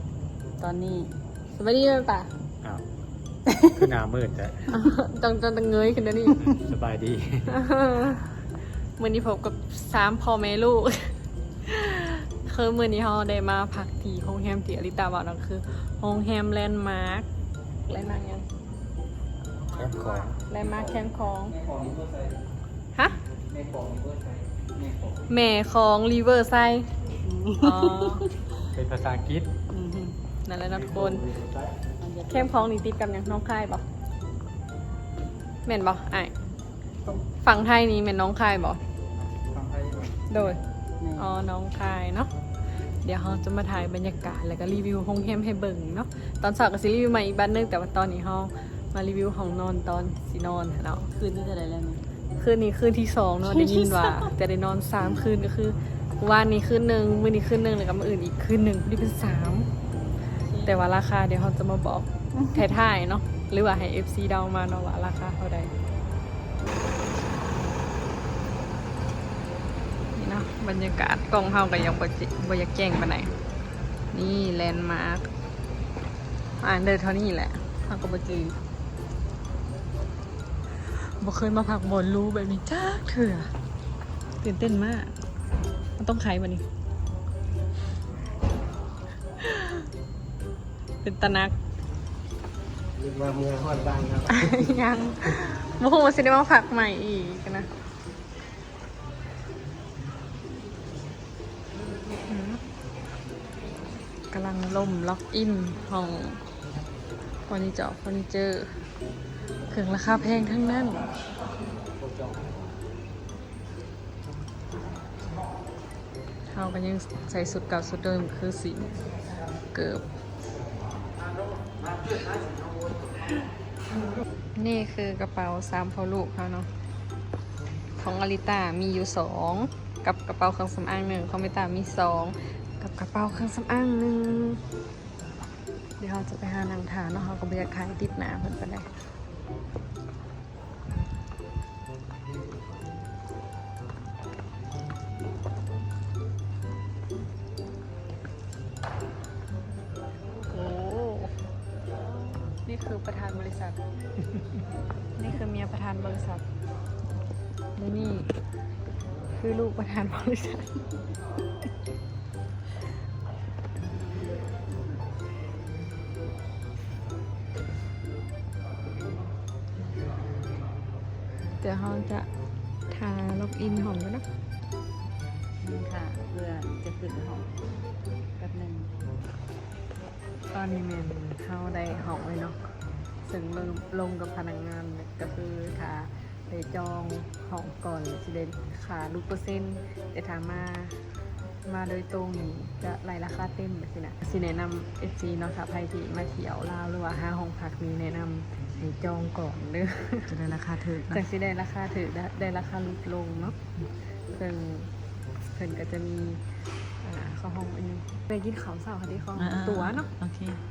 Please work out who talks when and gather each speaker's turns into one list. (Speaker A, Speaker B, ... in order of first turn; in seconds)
Speaker A: 0.6-1.1, 19.8-20.3, 27.3-27.8, 29.7-30.1, 32.0-32.7, 41.0-41.3, 51.1-52.0, 53.4-54.3, 60.4-60.8, 62.3-62.7, 175.6-177.5, 178.4-178.9, 200.3-201.2, 209.3-210.6
Speaker B: 1.5-2.3, 4.7-6.4, 7.5-8.2, 9.0-11.1, 11.6-17.3, 17.9-18.4, 20.4-21.6, 25.3-26.9, 27.6-28.2, 30.4-31.3, 32.3-33.8, 35.6-36.3, 37.4-38.8, 40.3-40.6, 41.1-42.3, 43.0-51.1, 52.4-59.7, 60.6-65.7, 70.1-73.3, 74.1-75.3, 76.6-78.5, 80.9-83.5, 84.4-85.1, 86.0-86.7, 89.4-89.8, 91.0-91.5, 94.3-97.7, 102.2-102.6, 104.3-106.4, 107.5-108.7, 109.7-111.0, 116.5-118.9, 119.7-120.0, 124.5-126.7, 128.0-134.6, 136.0-138.9, 150.5-151.3, 152.3-153.8, 155.2-156.4, 157.8-158.3, 159.3-160.9, 171.6-172.3, 172.9-174.2, 180.5-182.6, 183.2-191.0, 191.6-200.3, 201.1-203.6, 204.3-204.9, 205.5-206.4, 207.0-210.1
Speaker C: 3.7-4.7, 6.4-7.5, 19.8-20.3, 28.7-29.5, 30.7-31.8
Speaker D: 39.5-40.1, 93.0-94.5